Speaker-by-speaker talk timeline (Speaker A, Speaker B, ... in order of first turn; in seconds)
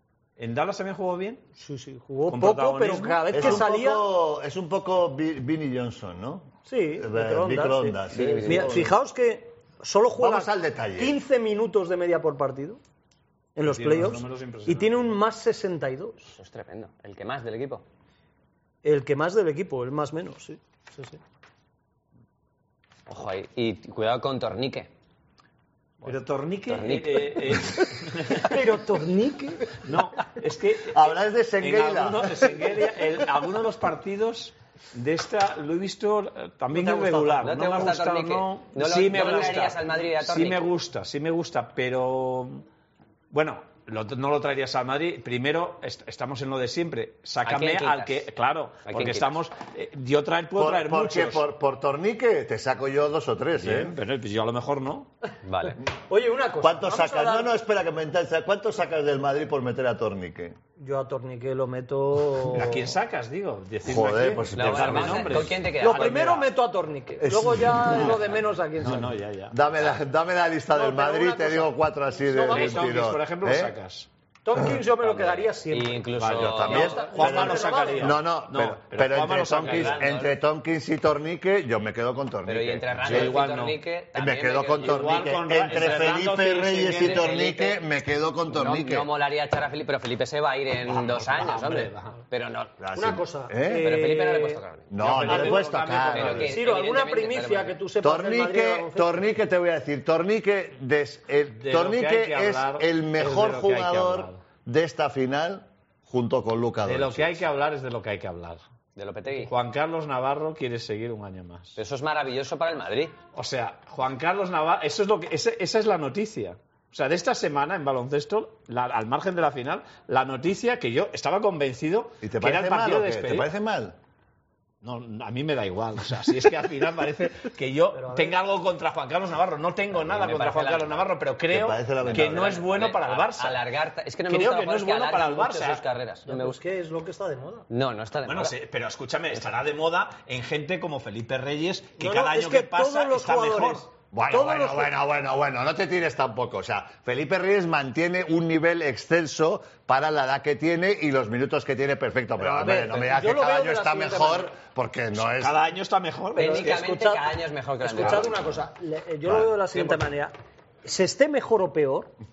Speaker A: 0.4-1.4, 2.3-3.6, 13.6-15.1, 26.0-28.6, 29.8-42.6, 43.3-51.5, 53.6-55.1, 62.5-66.3, 68.8-69.6, 72.5-74.1, 76.2-80.3, 83.0-83.8, 84.8-87.4, 90.9-92.2, 95.0-96.5, 101.5-104.4, 106.8-108.6, 109.3-111.8, 113.3-123.5, 124.8-133.7, 134.3-135.8, 138.2-143.9, 155.2-156.9, 159.7-160.1
Speaker B: 1.6-4.0, 6.7-12.8, 13.6-16.4, 18.8-21.2, 28.4-29.7, 56.1-57.6, 60.8-62.9, 65.8-69.1, 70.7-72.8, 74.5-76.0, 76.7-78.1, 93.0-94.6, 95.3-95.6, 96.4-99.2, 127.9-128.4, 136.3-137.7, 142.0-144.9, 152.4-154.5, 156.4-157.2, 157.8-162.1
Speaker C: 3.3-8.9, 10.2-11.2, 30.9-32.7, 50.6-54.0, 56.6-60.6, 63.8-65.5, 67.2-68.3, 69.5-73.8, 76.3-83.4, 84.1-89.1, 92.8-94.0, 94.9-96.5, 98.0-107.4, 122.2-124.0, 131.5-132.7, 144.1-155.7
Speaker D: 8.1-8.8, 16.3-17.9, 23.1-24.9, 26.7-27.7, 36.7-40.7, 47.4-48.2, 48.9-49.4, 55.4-55.8, 64.5-66.5, 75.0-77.4, 79.6-80.3, 82.5-86.0, 86.9-87.8, 88.5-92.7, 93.7-95.5, 96.1-97.8, 109.0-109.5, 111.8-113.2, 130.0-131.1, 132.2-136.6, 137.7-138.5, 156.4-158.4